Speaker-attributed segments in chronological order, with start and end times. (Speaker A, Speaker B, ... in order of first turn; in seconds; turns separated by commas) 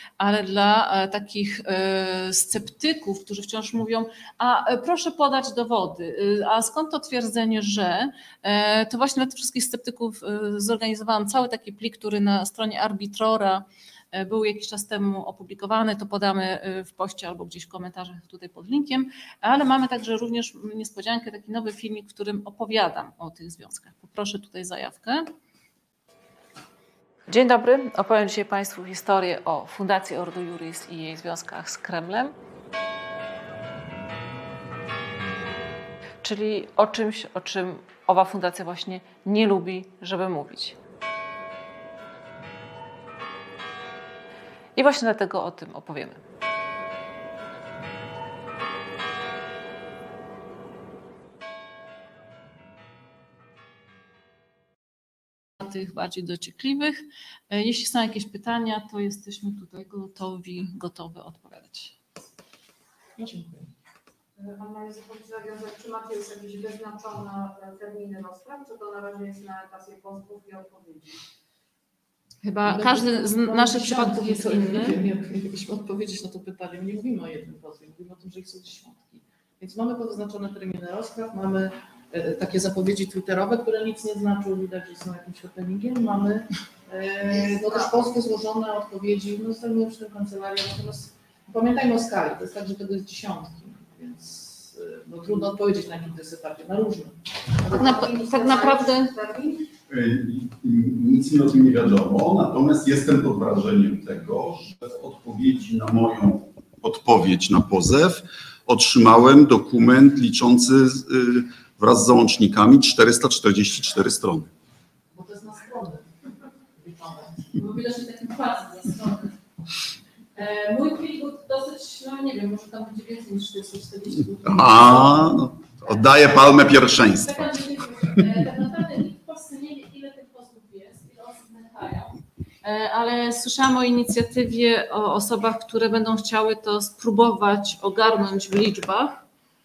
Speaker A: 0.2-25.3, Speaker A: 27.3-32.3, Speaker A: 36.2-40.8, Speaker A: 44.8-46.2, Speaker A: 55.6-62.0, Speaker B: 63.2-63.7, Speaker C: 64.4-71.2, Speaker A: 72.4-75.0, Speaker B: 72.7-97.7, Speaker C: 87.4-87.9, Speaker A: 97.7-99.1, Speaker C: 97.7-99.7, Speaker D: 99.9-114.5, Speaker B: 115.1-116.0, Speaker B: 116.8-117.4, Speaker A: 117.5-119.4, Speaker A: 120.3-125.3, Speaker D: 124.4-127.5, Speaker A: 127.1-139.2